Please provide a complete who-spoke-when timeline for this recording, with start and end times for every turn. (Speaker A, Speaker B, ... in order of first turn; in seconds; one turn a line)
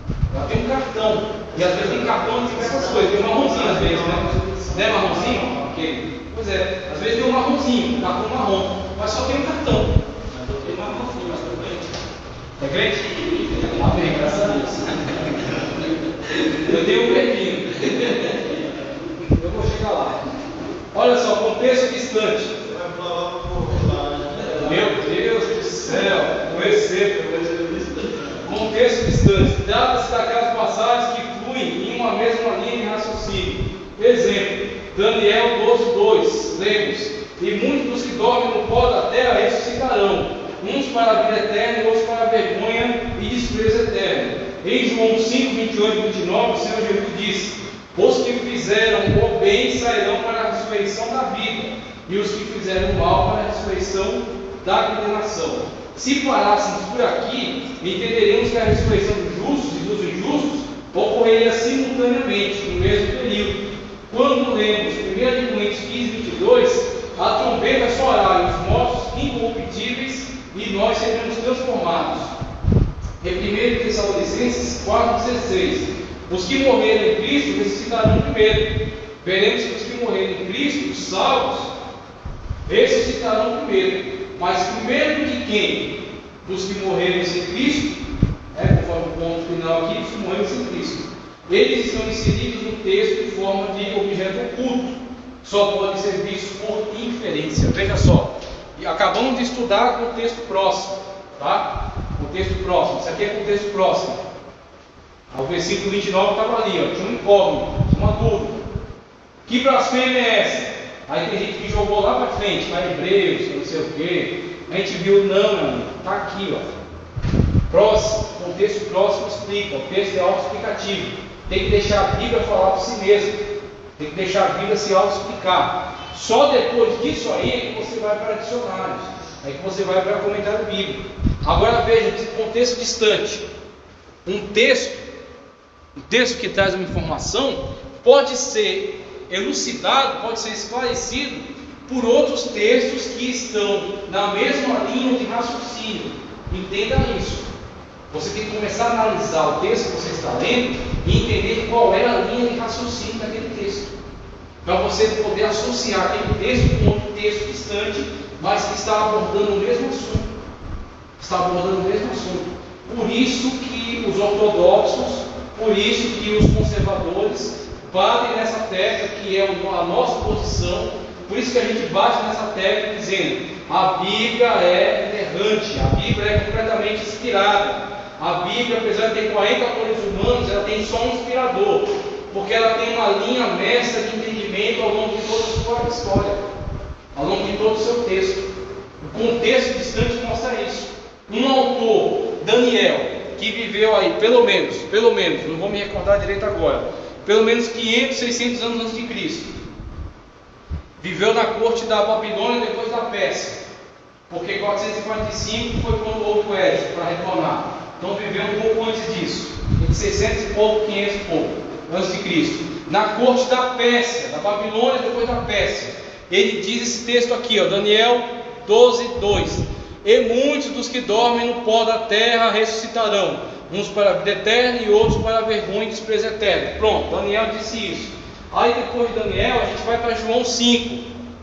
Speaker A: 0.3-10.0
Speaker B: 1.5-5.7
Speaker C: 10.3-11.9
Speaker A: 12.6-15.4
Speaker C: 13.1-16.8
Speaker A: 16.5-18.4
Speaker C: 17.9-18.8
Speaker A: 19.1-20.4
Speaker A: 20.9-22.5
Speaker B: 22.6-25.1
Speaker A: 24.6-27.2
Speaker C: 25.8-28.4
Speaker A: 28.4-72.3
Speaker A: 73.2-81.7
Speaker A: 82.7-88.0
Speaker A: 88.5-104.2
Speaker A: 105.3-108.6
Speaker A: 109.5-116.7
Speaker A: 117.7-123.4
Speaker A: 124.0-133.4
Speaker A: 134.2-135.0
Speaker A: 135.9-147.5
Speaker A: 148.1-153.9
Speaker A: 154.6-160.3
Speaker A: 161.2-186.4
Speaker A: 187.1-188.5
Speaker A: 189.0-199.5
Speaker A: 201.0-203.6
Speaker A: 204.3-231.0